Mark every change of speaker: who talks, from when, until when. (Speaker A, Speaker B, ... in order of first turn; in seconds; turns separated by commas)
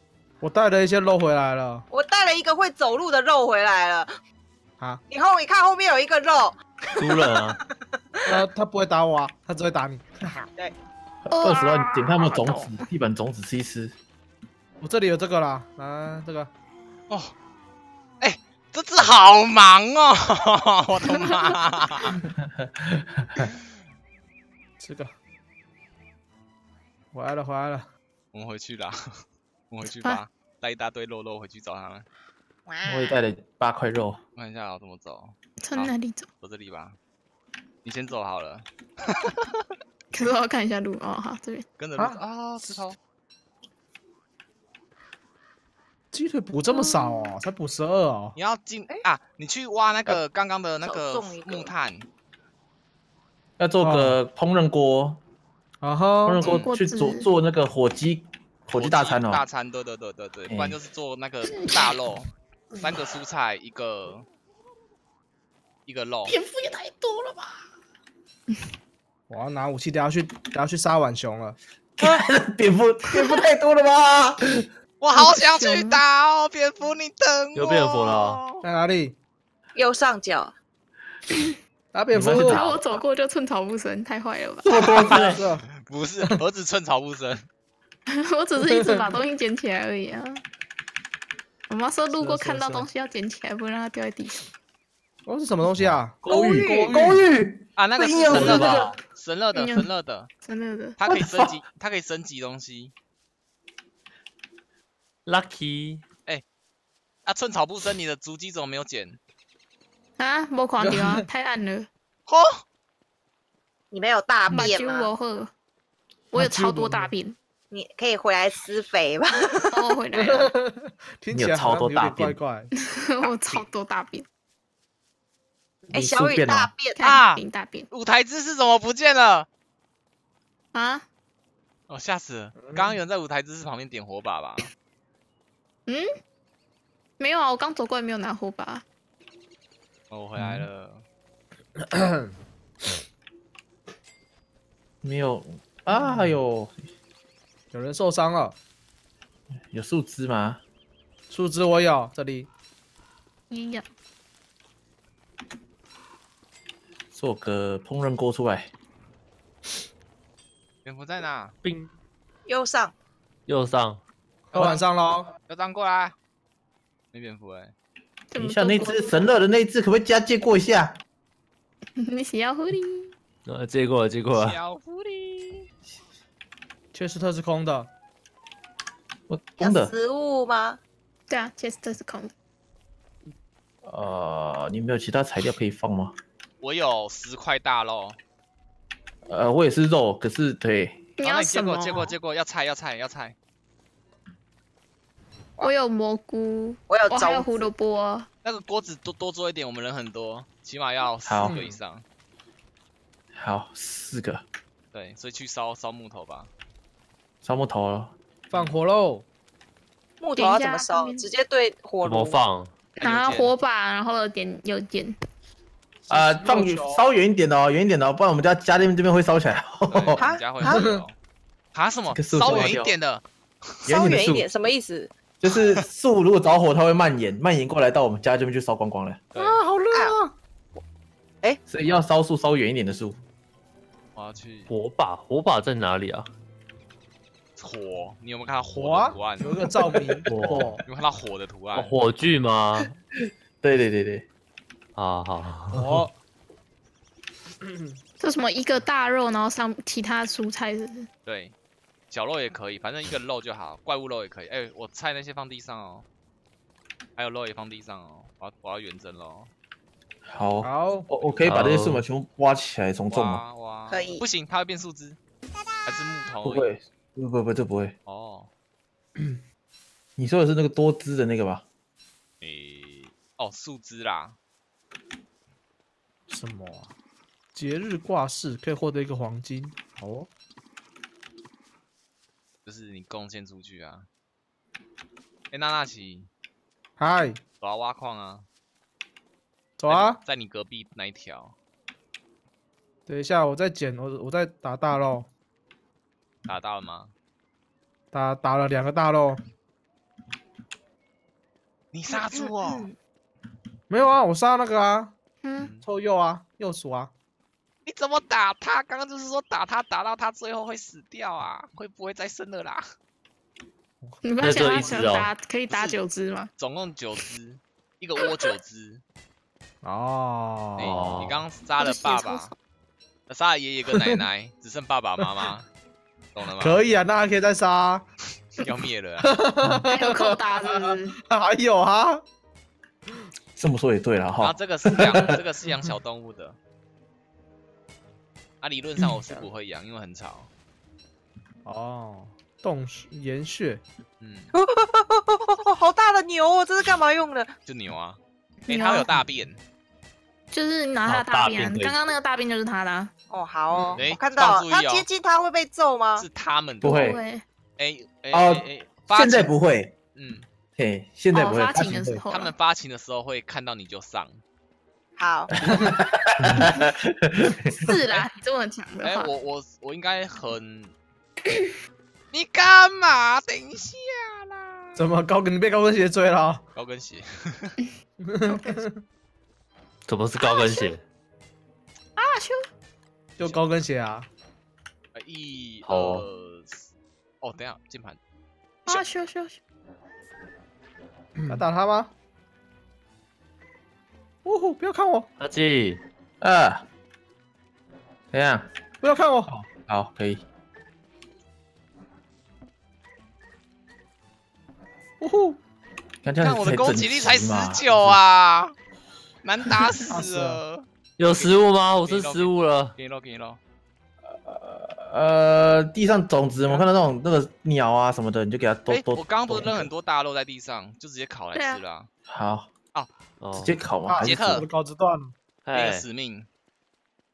Speaker A: 0.4-1.9, Speaker B: 1.9-4.1, Speaker B: 5.1-8.4, Speaker C: 7.0-7.6, Speaker A: 8.3-10.5, Speaker D: 11.3-12.9, Speaker E: 11.4-13.9, Speaker A: 14.8-16.5, Speaker F: 18.2-22.2, Speaker D: 21.1-21.5, Speaker E: 22.2-23.5, Speaker A: 24.8-25.1, Speaker A: 27.1-27.9, Speaker F: 28.3-29.0, Speaker F: 29.7-32.1, Speaker D: 29.9-30.2, Speaker B: 32.7-33.2, Speaker E: 32.9-34.2, Speaker F: 34.4-37.0, Speaker D: 35.6-36.3, Speaker F: 37.9-39.5, Speaker D: 40.1-41.7, Speaker F: 41.8-43.0, Speaker A: 42.0-42.8, Speaker A: 46.1-48.4, Speaker D: 46.6-47.4, Speaker F: 48.4-52.1, Speaker B: 50.8-51.7, Speaker E: 53.6-55.2, Speaker A: 53.8-54.2, Speaker A: 55.8-56.6, Speaker E: 56.2-59.4, Speaker D: 56.5-57.3, Speaker F: 58.7-64.3, Speaker E: 60.5-60.8, Speaker D: 61.5-62.0, Speaker F: 65.9-66.3, Speaker E: 66.3-67.2, Speaker A: 69.3-71.6, Speaker E: 72.0-74.7, Speaker F: 75.0-78.6, Speaker D: 75.1-76.0, Speaker C: 77.5-78.4, Speaker A: 78.6-79.2, Speaker B: 79.8-80.5, Speaker D: 81.3-81.6, Speaker A: 81.9-82.7, Speaker E: 82.1-82.9, Speaker D: 82.3-84.9, Speaker E: 84.6-85.4, Speaker C: 85.1-85.4, Speaker A: 85.2-85.7, Speaker F: 85.8-87.4, Speaker D: 88.3-90.4, Speaker A: 88.6-89.1, Speaker D: 91.7-94.5, Speaker A: 92.1-92.9, Speaker A: 95.3-97.3, Speaker E: 96.2-99.0, Speaker B: 96.3-97.0, Speaker F: 97.8-100.3, Speaker C: 98.3-99.0, Speaker D: 99.5-99.9, Speaker D: 100.4-101.2, Speaker F: 101.0-102.9, Speaker E: 101.1-101.5, Speaker C: 105.3-106.0, Speaker F: 107.3-109.2, Speaker D: 110.2-111.9, Speaker A: 110.8-111.3, Speaker B: 113.9-115.1, Speaker D: 114.5-115.5, Speaker D: 116.3-117.4, Speaker A: 116.3-117.1, Speaker B: 117.7-120.0, Speaker D: 119.7-120.5, Speaker A: 120.1-122.7, Speaker E: 121.3-122.4, Speaker D: 122.7-124.3, Speaker B: 123.2-123.6, Speaker E: 125.9-126.7, Speaker B: 125.9-127.0, Speaker D: 127.0-127.9, Speaker F: 127.0-129.5, Speaker D: 130.7-131.0, Speaker F: 131.9-134.7, Speaker A: 132.6-133.0, Speaker D: 137.2-138.8, Speaker F: 140.1-141.0, Speaker E: 140.4-140.7, Speaker A: 141.9-142.3, Speaker E: 145.0-146.9, Speaker A: 145.9-146.4, Speaker A: 147.7-148.6, Speaker E: 149.7-150.6, Speaker A: 151.3-152.5, Speaker D: 153.5-153.8, Speaker E: 157.1-158.7, Speaker F: 160.8-161.5, Speaker C: 161.6-161.9, Speaker B: 162.5-162.9, Speaker C: 163.5-164.0, Speaker F: 164.5-164.9, Speaker A: 164.5-165.3, Speaker F: 165.5-166.2, Speaker F: 167.1-167.7, Speaker D: 168.3-169.3, Speaker E: 168.4-171.0, Speaker D: 172.0-173.1, Speaker C: 173.5-174.6, Speaker F: 174.3-175.7, Speaker A: 176.9-177.9, Speaker E: 179.3-179.9, Speaker B: 179.6-180.8, Speaker D: 181.3-182.3, Speaker E: 183.8-186.2, Speaker F: 186.6-188.2, Speaker E: 189.3-191.1, Speaker D: 191.2-192.2, Speaker F: 191.2-193.4, Speaker D: 195.6-198.3, Speaker B: 196.9-197.7, Speaker F: 198.4-202.0, Speaker E: 201.2-201.6, Speaker A: 201.4-201.8, Speaker E: 203.3-204.4, Speaker F: 204.9-206.5, Speaker E: 207.4-208.1, Speaker A: 208.5-209.2, Speaker B: 210.2-212.4, Speaker D: 210.3-211.3, Speaker C: 212.0-212.8, Speaker D: 213.0-215.2, Speaker F: 213.0-213.5, Speaker A: 216.1-217.0, Speaker E: 216.1-220.2, Speaker F: 219.9-221.2, Speaker B: 220.2-220.8, Speaker A: 220.7-221.0, Speaker F: 221.7-223.2, Speaker E: 222.1-222.9, Speaker E: 223.9-224.5, Speaker B: 223.9-225.8, Speaker E: 225.4-229.2, Speaker F: 229.3-229.6, Speaker A: 229.4-230.3, Speaker B: 229.9-230.2, Speaker E: 231.7-233.2, Speaker F: 234.2-234.7, Speaker C: 234.7-236.3, Speaker F: 237.6-239.6, Speaker A: 238.7-240.8, Speaker C: 240.3-240.7, Speaker F: 240.8-242.0, Speaker C: 241.8-242.9, Speaker E: 243.6-244.2, Speaker C: 245.0-246.0, Speaker A: 245.7-246.1, Speaker A: 247.7-248.0, Speaker D: 248.2-251.1, Speaker F: 251.2-251.6, Speaker F: 252.1-256.1, Speaker F: 257.2-259.5, Speaker E: 260.3-263.4, Speaker A: 260.6-261.1, Speaker F: 261.2-261.6, Speaker C: 261.4-262.0, Speaker F: 263.1-265.2, Speaker B: 263.9-264.2, Speaker F: 265.9-266.7, Speaker E: 266.4-268.0, Speaker F: 268.1-268.5, Speaker E: 270.2-271.6, Speaker F: 272.4-274.4, Speaker A: 276.3-276.9, Speaker A: 277.5-280.3, Speaker F: 282.6-284.1, Speaker F: 285.5-286.3, Speaker A: 287.0-287.4, Speaker F: 287.6-288.5, Speaker A: 289.8-290.2, Speaker F: 289.9-291.6, Speaker A: 293.1-295.3, Speaker F: 296.5-297.1, Speaker A: 298.1-299.4, Speaker F: 301.9-302.9, Speaker B: 302.1-302.9, Speaker A: 303.9-305.1, Speaker D: 305.4-305.8, Speaker F: 305.6-305.8, Speaker A: 305.8-307.1, Speaker F: 307.9-312.8, Speaker A: 314.0-314.9, Speaker D: 314.2-316.5, Speaker C: 314.4-315.3, Speaker F: 315.7-316.0, Speaker F: 316.6-319.0, Speaker A: 319.8-321.1, Speaker F: 320.8-322.5, Speaker C: 320.8-321.4, Speaker D: 321.8-322.5, Speaker F: 323.3-325.7, Speaker A: 323.9-324.2, Speaker F: 326.3-327.0, Speaker A: 326.6-328.1, Speaker F: 328.6-329.4, Speaker A: 329.2-332.2, Speaker D: 329.9-331.2, Speaker E: 333.6-335.4, Speaker F: 334.4-336.6, Speaker F: 338.6-340.5, Speaker A: 341.6-343.8, Speaker F: 344.2-344.5, Speaker B: 344.5-347.5, Speaker F: 347.7-349.6, Speaker D: 348.7-349.2, Speaker D: 350.5-353.1, Speaker C: 351.1-352.0, Speaker B: 353.3-356.3, Speaker F: 354.0-355.1, Speaker F: 356.2-357.1, Speaker E: 356.8-357.2, Speaker D: 356.9-357.4, Speaker F: 357.8-359.5, Speaker E: 358.3-359.9, Speaker F: 360.1-360.5, Speaker E: 360.8-362.2, Speaker D: 361.3-362.5, Speaker F: 362.3-364.4, Speaker B: 365.2-365.5, Speaker E: 365.6-367.8, Speaker D: 367.8-369.3, Speaker F: 369.0-370.9, Speaker F: 372.3-374.9, Speaker A: 375.0-376.6, Speaker F: 376.8-377.8, Speaker A: 378.2-379.0, Speaker C: 380.1-381.0, Speaker D: 380.4-380.9, Speaker D: 382.2-382.6, Speaker A: 383.4-384.3, Speaker F: 385.1-388.2, Speaker C: 385.8-386.3, Speaker D: 388.9-389.6, Speaker A: 391.5-392.1, Speaker A: 394.4-395.3, Speaker C: 395.4-396.0, Speaker E: 396.4-396.9, Speaker E: 398.3-398.7, Speaker A: 399.0-399.5, Speaker E: 399.5-400.4, Speaker A: 405.2-405.6, Speaker E: 406.2-408.2, Speaker F: 406.4-408.8, Speaker F: 409.4-413.6, Speaker A: 410.1-410.6, Speaker C: 411.2-412.9, Speaker E: 414.3-419.9, Speaker F: 418.9-422.1, Speaker D: 421.5-421.8, Speaker E: 422.3-422.7, Speaker C: 423.4-423.8, Speaker E: 423.6-424.7, Speaker A: 424.1-425.3, Speaker F: 424.2-424.7, Speaker C: 425.6-426.1, Speaker F: 425.7-426.5